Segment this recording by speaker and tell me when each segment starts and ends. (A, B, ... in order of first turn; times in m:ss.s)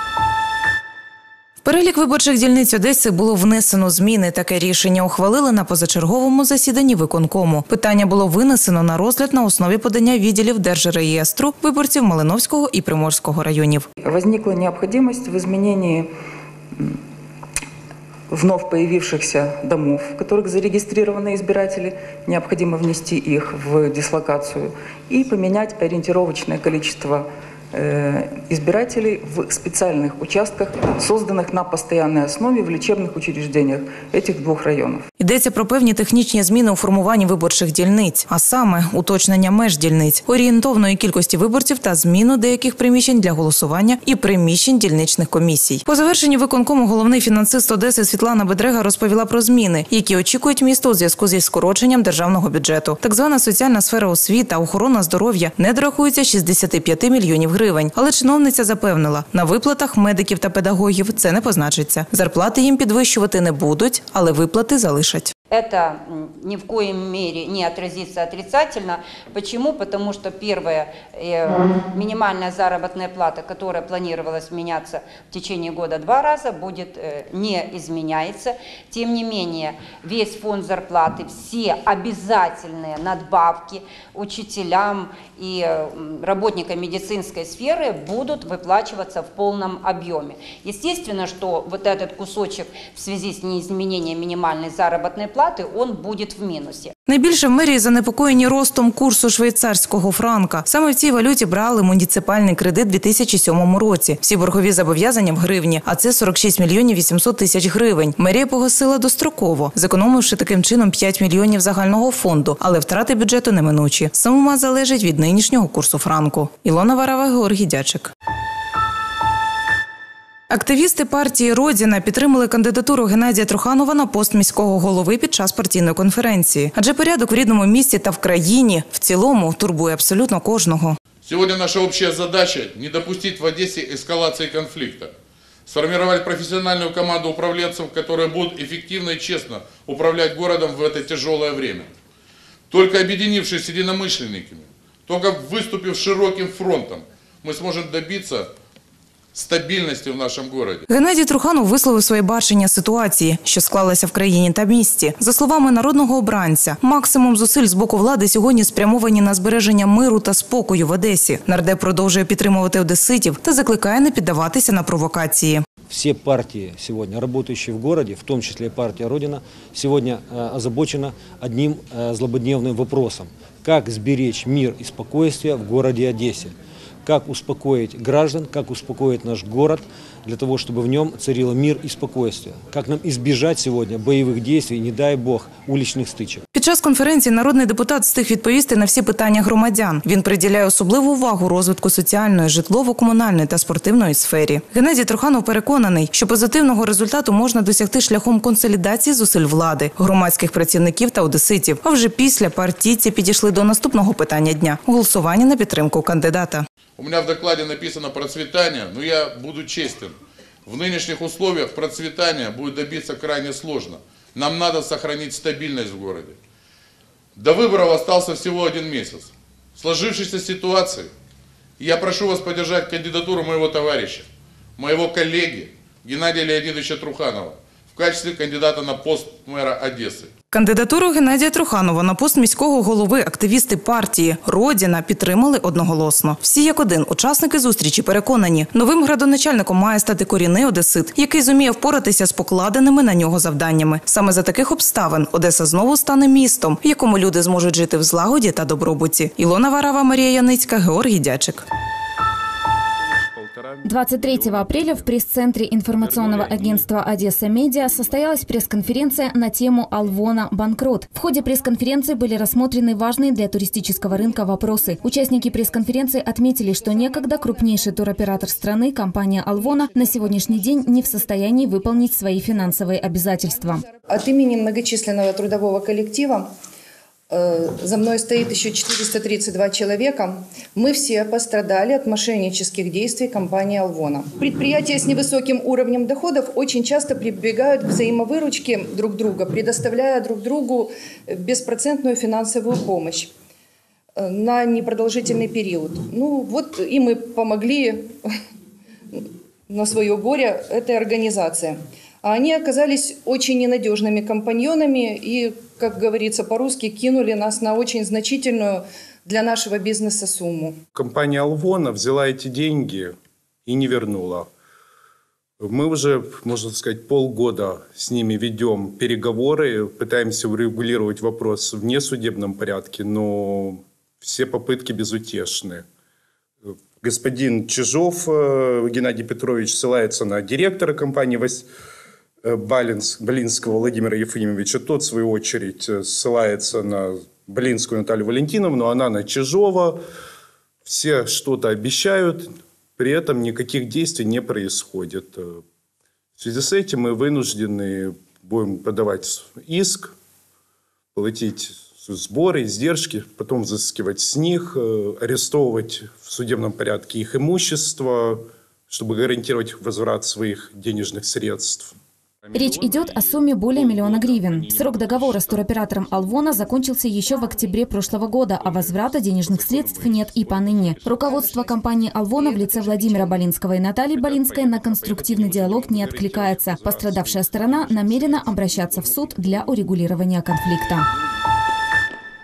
0:01.6-0:13.9 A
0:14.0-0:16.1 B
0:18.3-0:27.2 B
0:27.8-0:35.0 B
0:35.2-1:05.3 A
1:05.5-1:36.9 C
1:37.1-1:58.1 A
2:00.5-2:11.0 A
2:11.2-2:15.1 D
2:15.7-2:21.9 D
2:22.7-2:28.5 D
2:29.3-2:30.8 D
2:30.9-2:45.6 A
2:45.9-3:06.4 E
3:06.5-3:26.7 A
3:27.0-3:36.4 D
3:37.4-3:41.1 D
3:41.8-3:44.3 D
3:44.8-3:50.3 D
3:50.5-4:11.6 A
4:13.8-4:33.8 F
4:34.0-4:36.5 G
4:37.3-4:53.3 G
4:54.2-4:58.1 G
4:59.1-5:10.8 G
5:10.9-5:13.1 H
5:13.7-5:14.5 H
5:15.6-5:25.8 H
5:27.0-5:31.6 H
5:32.4-5:40.0 H
5:40.8-5:45.6 H
5:46.4-5:50.1 H
5:51.2-6:01.9 H
6:02.5-6:21.1 F
6:11.2-6:11.6 G
6:12.4-6:13.2 G